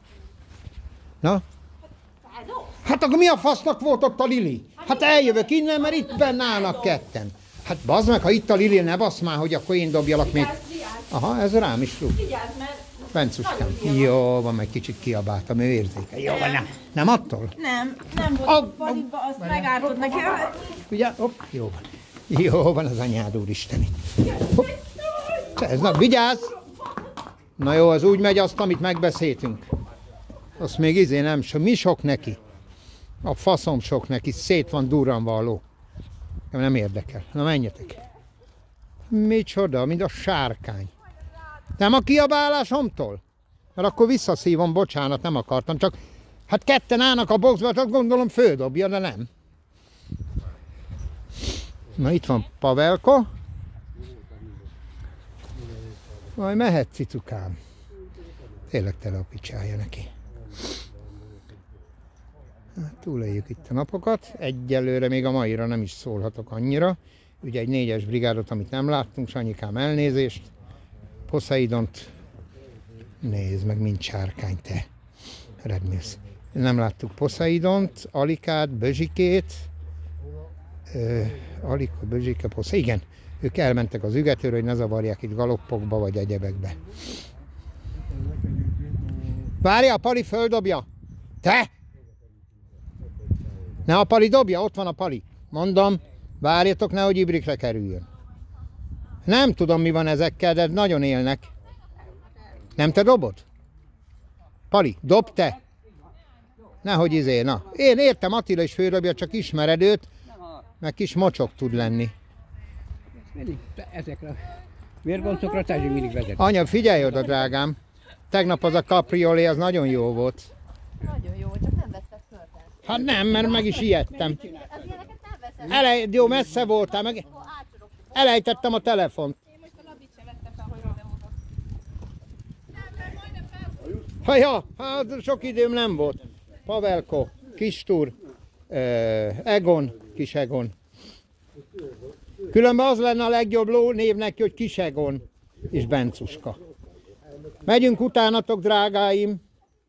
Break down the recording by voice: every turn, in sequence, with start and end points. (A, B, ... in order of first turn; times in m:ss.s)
0:02.8-0:12.3 A
0:12.3-0:12.8 B
0:13.1-0:17.6 A
0:17.6-0:20.6 B
0:18.2-0:24.7 A
0:25.4-0:26.6 A
0:27.6-0:29.7 A
0:30.6-0:32.4 A
0:33.2-0:35.6 A
0:36.5-0:38.0 A
0:39.1-0:40.9 A
0:41.8-0:43.2 A
0:43.8-0:46.0 A
0:46.5-0:49.3 A
0:51.9-0:53.3 A
0:56.4-0:57.6 A
0:58.7-1:00.1 A
1:02.8-1:10.5 A
1:11.3-1:12.1 A
1:13.2-1:14.9 A
1:15.6-1:19.7 A
1:20.9-1:26.8 A
1:29.6-1:30.8 A
1:31.4-1:31.7 A
1:33.8-1:38.0 A
1:39.2-1:41.5 A
1:42.8-1:43.4 A
1:44.7-1:45.6 A
1:46.8-1:50.1 A
1:50.8-1:52.1 A
1:53.2-1:56.4 C
1:56.4-1:57.8 A
1:58.3-2:00.5 A
2:01.0-2:02.7 B
2:02.8-2:04.7 A
2:04.7-2:05.6 B
2:05.6-2:07.4 A
2:08.1-2:09.4 A
2:09.7-2:11.1 B
2:14.2-2:18.1 A
2:18.7-2:20.7 A
2:22.5-2:26.6 A
2:27.6-2:29.4 A